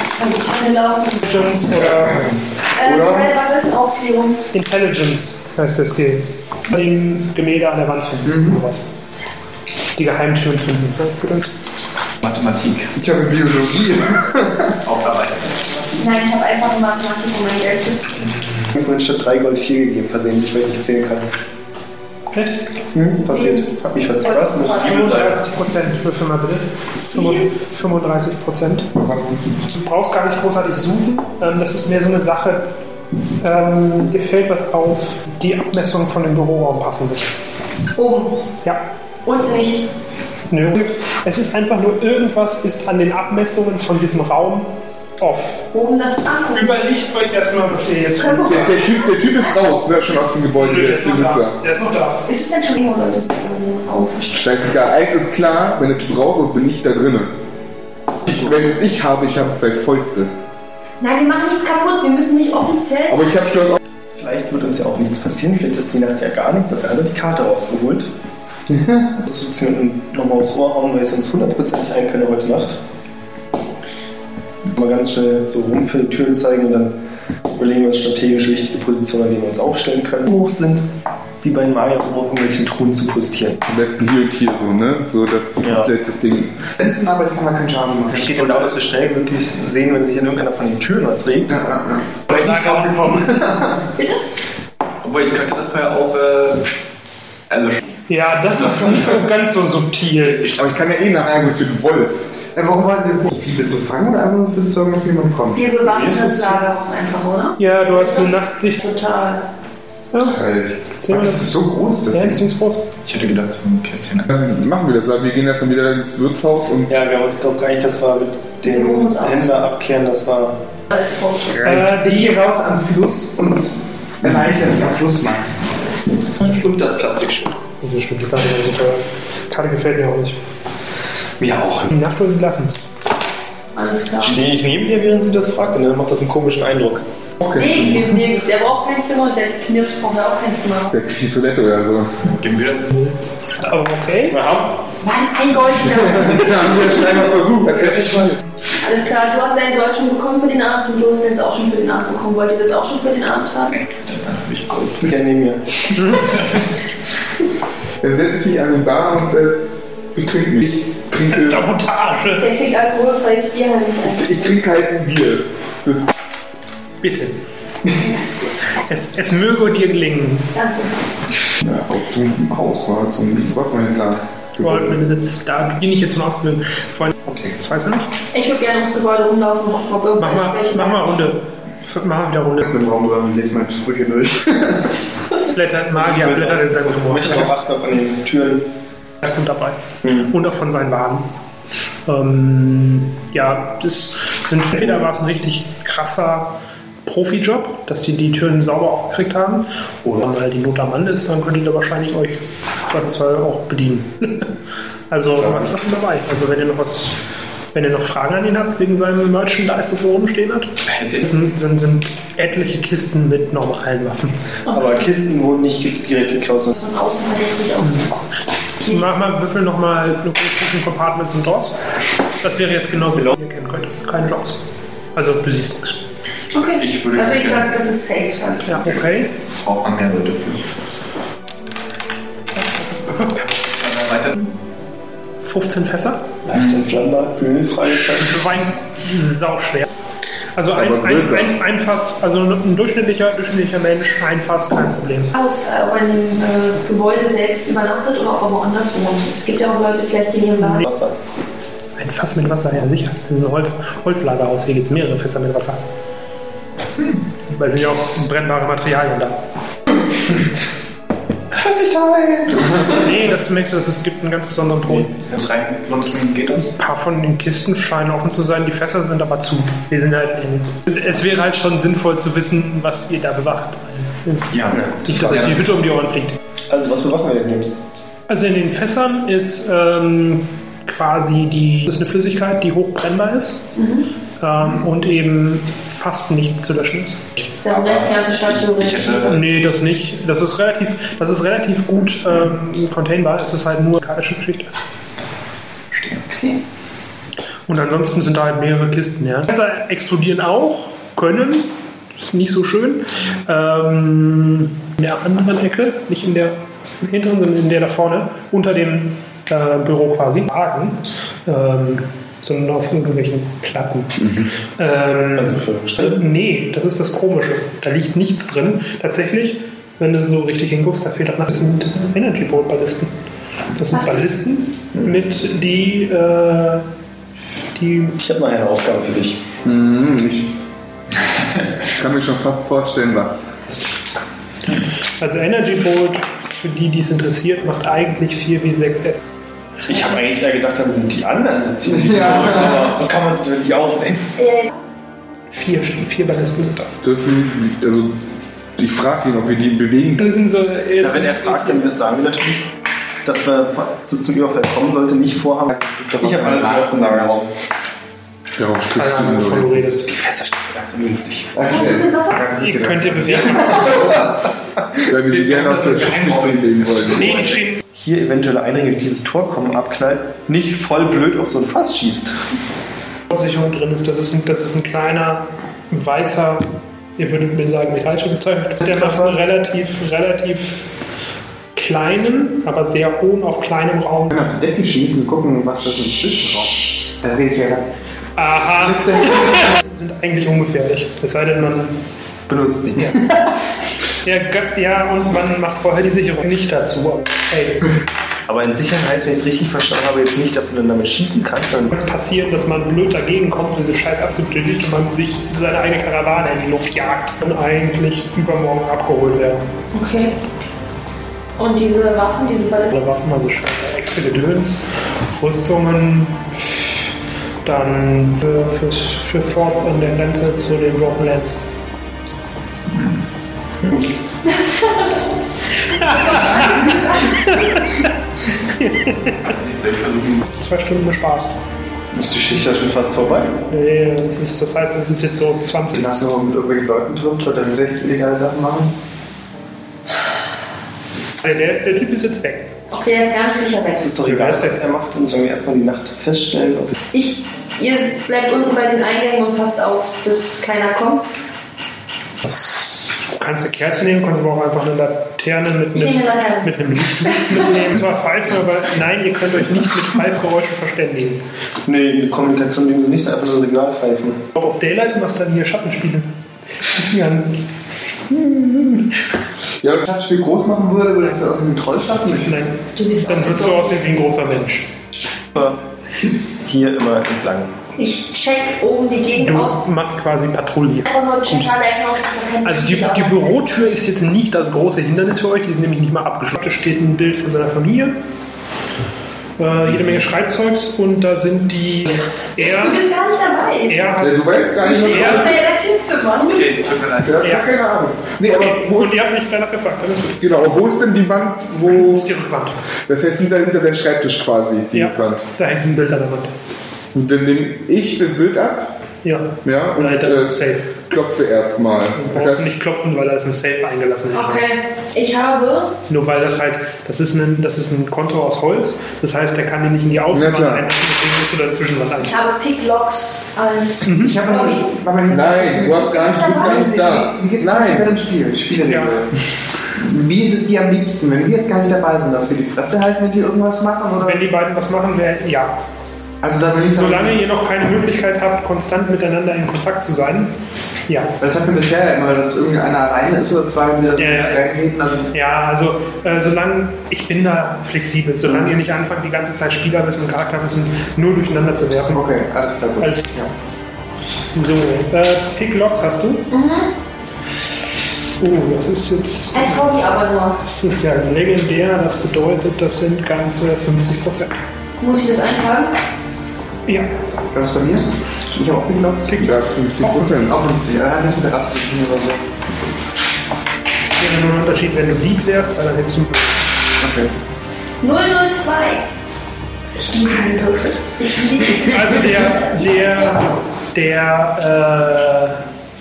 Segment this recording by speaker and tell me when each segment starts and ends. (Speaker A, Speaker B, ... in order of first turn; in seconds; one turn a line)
Speaker A: 0.2-1.5
Speaker B: 1.2-2.3
Speaker C: 1.9-3.3
Speaker A: 2.8-4.4
Speaker B: 4.5-8.9
Speaker B: 10.0-11.5
Speaker D: 12.2-12.9
Speaker E: 13.0-14.7
Speaker D: 14.8-16.0
Speaker A: 16.0-18.2
Speaker F: 18.7-21.3
Speaker B: 22.3-22.7
Speaker F: 22.9-25.4
Speaker A: 23.3-23.7
Speaker A: 24.2-25.2
Speaker B: 24.8-28.9
Speaker A: 27.1-27.4
Speaker C: 28.9-29.4
Speaker B: 29.8-32.6
Speaker B: 33.4-37.3
Speaker A: 37.9-38.4
Speaker A: 39.2-39.9
Speaker B: 40.5-45.7
Speaker A: 45.7-46.7
Speaker B: 46.5-48.8
Speaker A: 48.2-49.0
Speaker C: 48.5-51.6
Speaker B: 50.6-52.2
Speaker A: 52.3-54.5
Speaker C: 54.3-57.3
Speaker C: 58.3-60.3
Speaker A: 61.0-63.2
Speaker C: 63.1-63.8
Speaker F: 64.1-68.1
Speaker F: 68.7-72.8
Speaker F: 74.7-76.9
Speaker F: 77.5-80.8
Speaker F: 81.4-83.6
Speaker C: 83.7-86.6
Speaker F: 85.6-85.9
Speaker E: 86.8-88.4
Speaker F: 88.1-91.5
Speaker E: 91.5-93.9
Speaker B: 92.3-93.4
Speaker D: 95.0-96.8
Speaker D: 97.5-97.8
Speaker B: 98.1-100.5
Speaker D: 98.7-99.1
Speaker D: 100.2-100.7
Speaker C: 100.6-102.2
Speaker E: 102.5-105.8
Speaker A: 105.5-109.5
Speaker F: 106.1-106.4
Speaker B: 107.6-108.8
Speaker B: 110.1-110.4
Speaker C: 110.2-111.0
Speaker B: 111.0-111.5
Speaker E: 111.1-112.4
Speaker B: 112.1-112.8
Speaker D: 113.0-114.3
Speaker C: 114.3-116.9
Speaker F: 116.9-120.6
Speaker A: 118.6-119.5
Speaker A: 120.9-121.6
Speaker E: 121.5-125.5
Speaker B: 121.6-122.4
Speaker F: 126.4-127.5
Speaker B: 127.8-130.4
Speaker F: 131.4-131.9
Speaker B: 131.9-132.8
Speaker A: 133.8-134.4
Speaker F: 134.2-137.0
Speaker C: 137.4-137.9
Speaker A: 137.5-141.0
Speaker C: 140.9-142.2
Speaker D: 142.3-142.9
Speaker B: 142.9-144.4
Speaker F: 144.3-144.8
Speaker A: 145.0-146.9
Speaker C: 146.0-148.4
Speaker A: 148.8-153.7
Speaker D: 153.7-155.0
Speaker F: 155.0-155.9
Speaker C: 158.0-159.6
Speaker C: 160.2-161.6
Speaker B: 161.3-162.5
Speaker A: 162.4-164.6
Speaker C: 164.1-166.1
Speaker B: 167.0-167.4
Speaker B: 168.9-170.5
Speaker A: 170.6-171.0
Speaker C: 171.6-175.0
Speaker B: 174.6-178.1
Speaker A: 178.3-181.2
Speaker B: 180.2-182.7
Speaker E: 182.6-184.9
Speaker B: 185.5-187.5
Speaker F: 185.9-188.7
Speaker B: 189.2-191.3
Speaker F: 190.0-190.3
Speaker B: 192.1-204.5
Speaker B: 205.1-207.2
Speaker F: 205.4-205.7
Speaker B: 207.7-214.3
Speaker D: 210.9-211.2
Speaker F: 214.7-216.7
Speaker A: 216.7-218.2
Speaker B: 217.8-218.1
Speaker B: 218.9-221.8
Speaker B: 222.4-224.6
Speaker B: 225.2-226.0
Speaker A: 226.5-229.0
Speaker D: 226.8-227.7
Speaker B: 228.7-229.3
Speaker D: 229.6-230.7
Speaker D: 233.6-234.5
Speaker B: 235.4-236.3
Speaker F: 236.5-238.5
Speaker D: 236.5-236.8
Speaker B: 238.0-239.9
Speaker B: 240.6-245.3
Speaker C: 240.7-241.6
Speaker A: 245.3-250.9
Speaker F: 250.6-251.2
Speaker B: 252.0-255.8
Speaker B: 257.5-259.4
Speaker E: 261.6-262.9
Speaker B: 262.9-265.1
Speaker D: 265.1-266.7
Speaker B: 266.8-274.5
Speaker D: 274.5-275.7
Speaker B: 275.1-276.4
Speaker F: 276.7-277.7
Speaker B: 278.3-283.7
Speaker A: 283.8-284.1
Speaker B: 284.4-287.2
Speaker A: 287.6-289.4
Speaker D: 287.7-289.4
Speaker B: 289.3-294.8
Speaker D: 295.9-296.2
Speaker A: 296.3-296.6
Speaker B: 297.7-323.1
Speaker F: 315.4-316.2
Speaker B: 323.8-326.9
Speaker B: 327.8-328.2
Speaker F: 328.2-329.4
Speaker C: 329.6-330.5
Speaker C: 332.0-333.5
Speaker B: 335.2-339.2
Speaker F: 339.9-344.4
Speaker E: 342.1-342.8
Speaker A: 344.4-344.8
Speaker B: 345.5-346.9
Speaker C: 347.0-348.1
Speaker C: 348.8-350.3
Speaker B: 350.2-351.9
Speaker F: 351.0-352.7
Speaker F: 353.2-357.5
Speaker E: 355.9-356.5
Speaker D: 356.3-357.4
Speaker C: 358.6-359.9
Speaker B: 358.9-360.1
Speaker F: 360.1-361.6
Speaker E: 361.6-364.5
Speaker A: 361.7-362.3
Speaker B: 362.3-364.2
Speaker C: 365.1-367.5
Speaker D: 365.3-367.5
Speaker B: 367.1-367.8
Speaker F: 367.9-372.4
Speaker B: 373.3-380.9
Speaker F: 378.8-379.4
Speaker B: 381.8-384.4
Speaker E: 384.3-387.9
Speaker B: 388.4-392.0
Speaker E: 388.9-389.8
Speaker F: 392.5-393.0
Speaker B: 394.2-397.9
Speaker F: 398.5-401.9
Speaker B: 401.9-409.7
Speaker A: 409.9-410.4
Speaker A: 411.6-413.0
Speaker B: 412.9-417.1
Speaker B: 417.6-421.6
Speaker F: 423.8-424.2
Speaker B: 425.9-429.6
Speaker A: 426.1-427.3
Speaker D: 429.5-430.5
Speaker B: 430.6-431.6
Speaker F: 432.1-433.6
Speaker B: 433.7-436.1
Speaker E: 435.9-438.9
Speaker B: 441.4-442.7
Speaker A: 442.9-444.1
Speaker F: 444.0-447.0
Speaker B: 444.2-444.8
Speaker A: 447.1-451.3
Speaker B: 452.4-461.4
Speaker A: 455.9-456.7
Speaker A: 457.2-457.8
Speaker F: 461.9-464.4
Speaker B: 464.6-466.3
Speaker B: 466.9-467.6
Speaker C: 468.3-469.0
Speaker C: 469.8-470.1
Speaker E: 470.0-472.6
Speaker B: 472.5-474.9
Speaker A: 472.9-473.9
Speaker F: 475.5-475.8
Speaker F: 476.6-477.7
Speaker A: 478.0-479.8
Speaker B: 479.4-481.7
Speaker A: 481.1-483.5
Speaker B: 482.6-488.2
Speaker B: 489.6-493.0
Speaker A: 492.6-494.1
Speaker B: 493.9-495.7
Speaker C: 494.2-495.7
Speaker A: 494.8-496.7
Speaker D: 496.4-497.5
Speaker C: 497.2-499.2
Speaker B: 498.4-500.4
Speaker C: 500.4-502.3
Speaker B: 501.8-502.8
Speaker C: 503.1-505.4
Speaker B: 504.9-506.5
Speaker C: 507.1-508.9
Speaker B: 509.2-511.0
Speaker C: 509.6-512.7
Speaker B: 512.2-514.6
Speaker A: 514.3-516.0
Speaker B: 516.1-522.4
Speaker C: 520.3-520.9
Speaker A: 522.2-524.9
Speaker B: 524.0-524.4
Speaker E: 524.2-529.3
Speaker C: 525.3-528.1
Speaker A: 526.1-526.9
Speaker B: 528.9-529.2
Speaker E: 530.0-534.4
Speaker B: 534.2-535.8
Speaker E: 536.4-537.4
Speaker B: 536.9-540.5
Speaker B: 541.1-541.4
Speaker E: 541.4-545.3
Speaker B: 544.2-544.6
Speaker B: 545.3-552.3
Speaker E: 548.5-548.7
Speaker E: 552.1-553.5
Speaker B: 553.0-553.3
Speaker B: 554.5-556.5
Speaker A: 556.5-556.9
Speaker B: 558.4-564.6
Speaker A: 559.5-560.6
Speaker A: 565.0-565.9
Speaker E: 567.5-572.5
Speaker B: 569.3-570.5
Speaker C: 569.4-570.6
Speaker B: 574.2-576.6
Speaker E: 577.0-577.3
Speaker A: 578.0-579.1
Speaker A: 580.0-582.6
Speaker B: 581.8-585.6